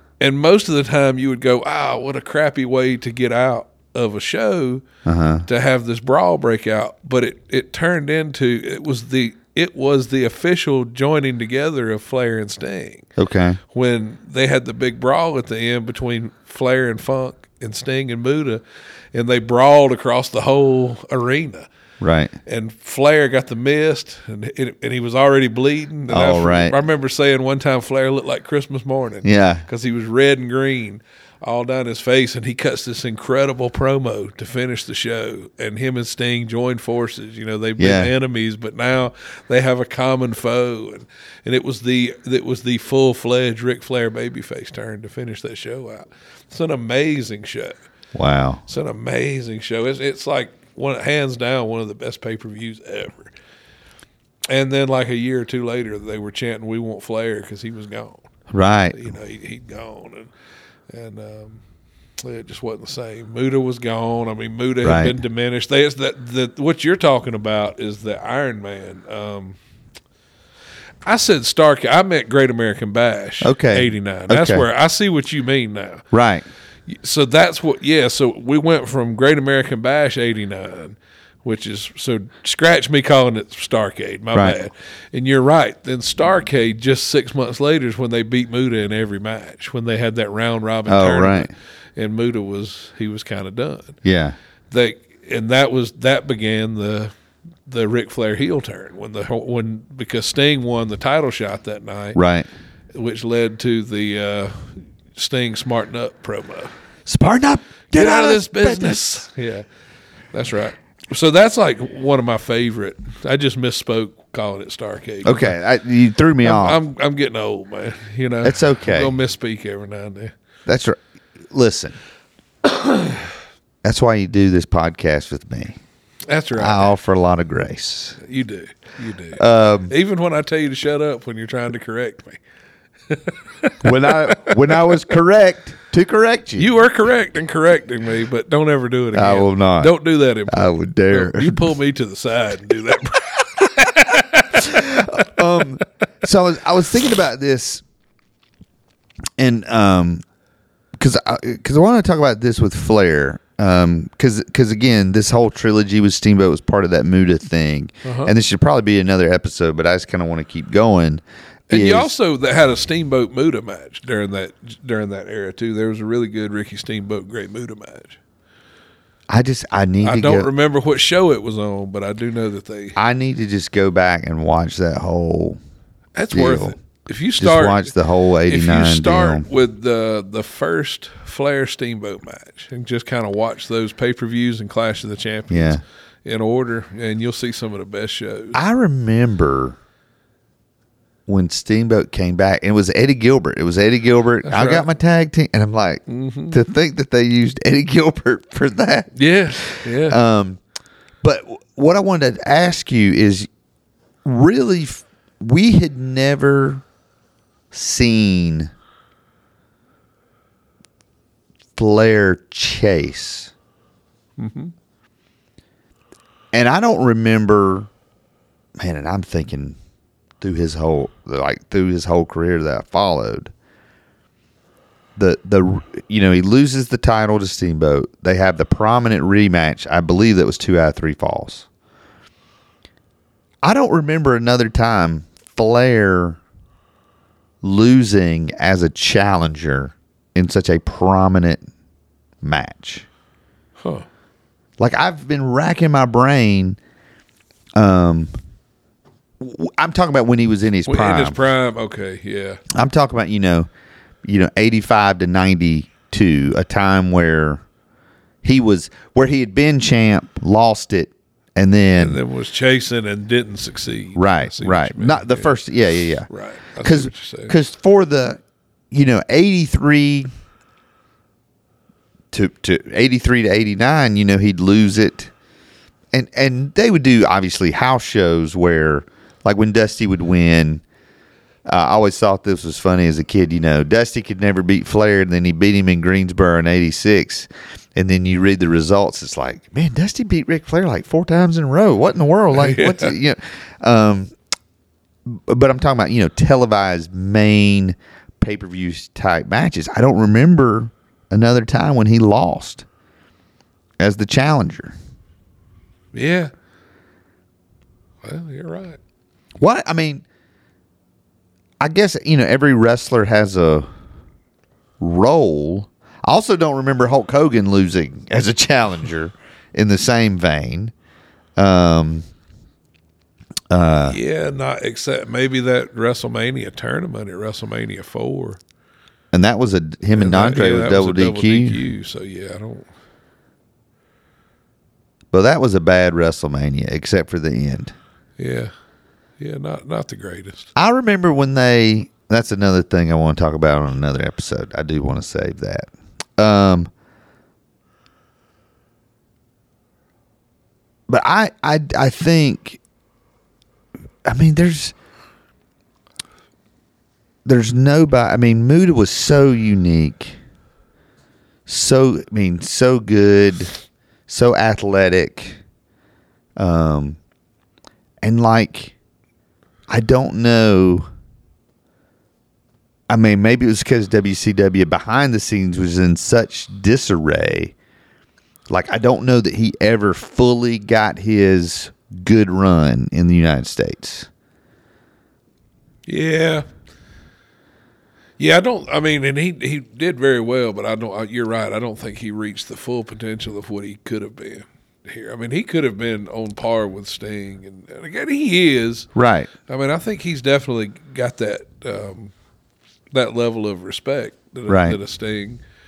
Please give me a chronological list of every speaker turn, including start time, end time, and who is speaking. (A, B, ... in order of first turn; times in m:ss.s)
0:00.2-0:04.8 A
0:05.0-0:05.4 B
0:05.4-0:13.1 A
0:13.2-0:13.6 B
0:13.7-0:18.6 A
0:19.1-0:21.7 A
0:22.0-0:22.3 B
0:22.4-0:47.8 A
0:26.1-0:26.8 B
0:29.2-0:29.6 B
0:37.8-0:38.1 B
0:48.1-0:48.6 B
0:48.7-0:53.3 A
0:54.5-0:58.2 A
0:58.5-0:59.1 B
0:58.9-1:00.3 A
1:00.9-1:01.6 A
1:02.2-1:09.6 A
1:04.8-1:05.2 B
1:11.0-1:16.0 A
1:13.4-1:14.6 B
1:16.1-1:16.4 B
1:16.9-1:34.0 A
1:30.9-1:31.5 B
1:34.0-1:34.4 B
1:34.7-1:37.1 A
1:37.6-1:42.2 A
1:42.1-1:42.5 B
1:42.9-1:46.7 A
1:47.0-1:49.2 B
1:47.9-1:49.6 A
1:50.3-1:55.6 A
1:55.2-1:56.8 B
1:56.4-2:00.3 A
1:58.4-1:59.1 B
2:00.6-2:01.0 B
2:01.5-2:02.0 B
2:02.6-2:03.2 A
2:03.8-2:05.8 B
2:06.3-2:06.9 A
2:06.5-2:08.2 B
2:08.2-2:12.4 A
2:09.4-2:09.9 B
2:13.1-2:15.0 A
2:13.8-2:16.7 B
2:16.6-2:25.3 A
2:19.1-2:20.0 B
2:20.5-2:21.7 B
2:24.5-2:27.8 B
2:29.4-2:30.2 B
2:31.0-2:42.1 B
2:38.0-2:38.3 A
2:41.7-2:48.2 A
2:49.3-2:50.5 B
2:50.0-2:53.0 A
2:53.0-2:55.6 B
2:56.2-2:57.9 A
2:56.3-2:56.8 B
2:57.4-2:59.4 B
2:58.4-3:08.6 A
3:05.5-3:05.8 B
3:08.5-3:09.8 B
3:11.3-3:20.6 B
3:14.4-3:14.9 A
3:16.1-3:16.6 A
3:19.1-3:20.2 A
3:21.2-3:23.5 B
3:24.2-3:26.8 B
3:27.7-3:28.7 B
3:31.8-3:33.5 B
3:34.4-3:34.7 A
3:36.5-3:37.9 B
3:38.8-3:39.8 B
3:40.4-3:43.5 B
3:45.2-3:51.6 B
3:53.6-3:56.4 B
3:57.6-4:01.6 B
4:02.4-4:03.0 B
4:03.8-4:04.0 A
4:04.8-4:06.8 B
4:07.8-4:08.3 B
4:09.4-4:11.4 B
4:10.8-4:12.6 A
4:12.7-4:13.7 B
4:14.2-4:17.6 B
4:18.4-4:22.2 B
4:21.9-4:25.6 A
4:24.2-4:26.3 B
4:26.3-4:27.6 A
4:26.8-4:28.4 B
4:28.9-4:30.3 B
4:32.3-4:35.3 B
4:36.1-4:40.8 B
4:41.6-4:54.3 B
4:52.5-4:53.1 A
4:55.2-5:02.8 B
5:04.0-5:04.9 B
5:06.1-5:06.5 A
5:08.2-5:09.0 A
5:09.6-5:10.2 B
5:11.8-5:13.9 B
5:15.0-5:20.9 B
5:21.6-5:22.2 B
5:23.7-5:24.2 B
5:24.1-5:28.6 A
5:29.3-5:31.8 B
5:30.1-5:32.9 A
5:35.3-5:37.9 B
5:38.4-5:38.7 A
5:39.4-5:40.7 A
5:40.8-5:46.9 B
5:51.1-5:52.8 B
5:54.2-5:54.9 B
5:57.4-6:00.4 B
6:01.7-6:03.7 B
6:04.3-6:05.6 B
6:06.6-6:07.2 B
6:08.2-6:08.9 B
6:09.9-6:11.1 B
6:13.1-6:17.7 B
6:18.7-6:24.3 B
6:26.0-6:26.6 A
6:28.4-6:39.1 A
6:39.1-6:39.5 B
6:39.7-6:42.3 A
6:43.1-6:45.6 A
6:44.7-6:45.0 B